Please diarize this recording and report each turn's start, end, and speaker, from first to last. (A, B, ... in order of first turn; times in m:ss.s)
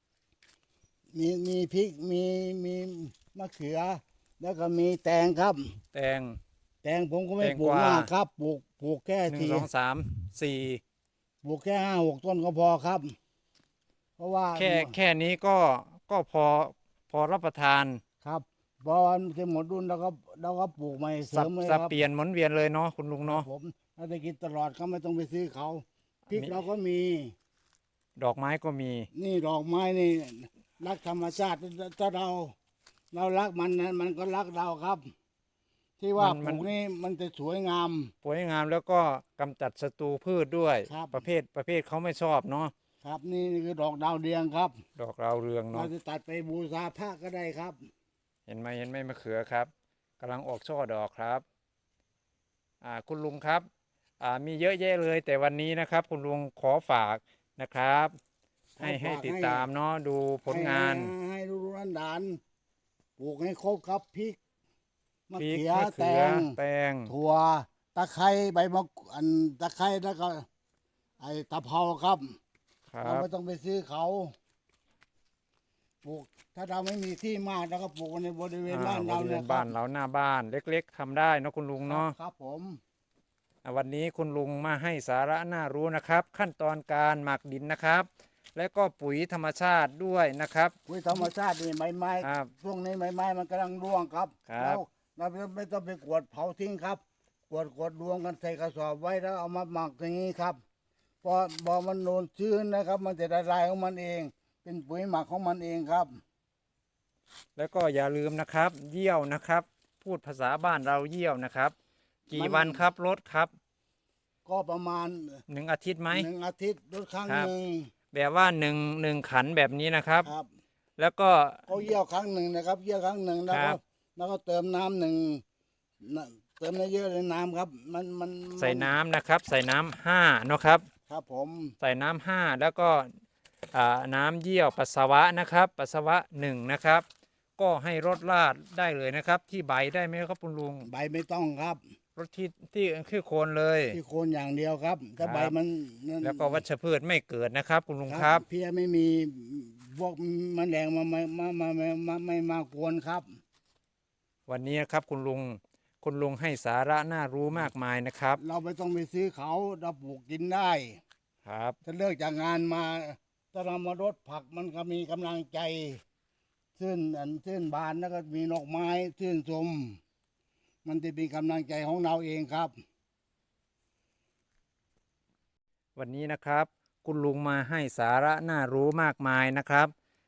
0:01.1-0:05.8 A
0:05.9-0:06.4 B
0:06.8-0:09.7 A
0:07.4-0:08.1 B
0:09.3-0:10.8 B
0:11.4-0:13.1 A
0:14.2-0:14.9 A
0:14.6-0:18.0 B
0:18.2-0:22.0 A
0:21.2-0:23.4 B
0:23.2-0:27.3 A
0:28.2-0:29.1 B
0:29.1-0:32.5 A
0:33.1-0:35.1 A
0:36.0-0:38.1 A
0:36.2-0:36.6 B
0:38.2-0:42.7 B
0:40.9-0:41.2 A
0:43.0-0:44.8 A
0:45.0-0:45.9 B
0:45.7-0:47.9 A
0:48.5-0:51.4 B
0:52.8-0:53.7 B
0:54.2-0:58.1 B
0:58.8-0:59.7 A
0:58.8-1:01.1 B
1:00.5-1:02.4 A
1:03.2-1:04.4 A
1:05.3-1:10.4 A
1:05.4-1:07.1 B
1:11.2-1:12.4 A
1:12.9-1:13.3 B
1:13.0-1:14.3 A
1:16.0-1:19.7 A
1:18.7-1:22.1 B
1:21.8-1:22.8 A
1:23.6-1:30.7 B
1:30.9-1:40.6 A
1:32.2-1:32.5 B
1:34.5-1:34.8 B
1:41.2-1:46.2 A
1:47.6-1:51.7 B
1:52.3-1:53.5 B
1:52.3-1:52.8 A
1:54.4-1:55.4 A
1:55.5-1:56.3 B
1:56.1-1:57.9 A
1:57.2-1:57.5 B
1:58.1-2:00.3 B
2:01.0-2:01.7 B
2:01.7-2:05.4 A
2:03.5-2:03.8 B
2:06.0-2:08.9 A
2:08.6-2:10.8 B
2:11.1-2:11.8 A
2:11.8-2:13.1 B
2:13.7-2:17.0 B
2:17.6-2:20.9 B
2:20.8-2:21.8 A
2:22.2-2:24.0 B
2:23.9-2:26.6 A
2:25.2-2:25.5 B
2:26.2-2:28.4 B
2:28.1-2:33.4 A
2:34.5-2:38.4 B
2:38.4-2:41.0 A
2:41.4-2:41.8 B
2:41.8-2:46.0 A
2:46.8-2:50.0 A
2:50.8-2:52.7 A
2:56.0-2:59.9 B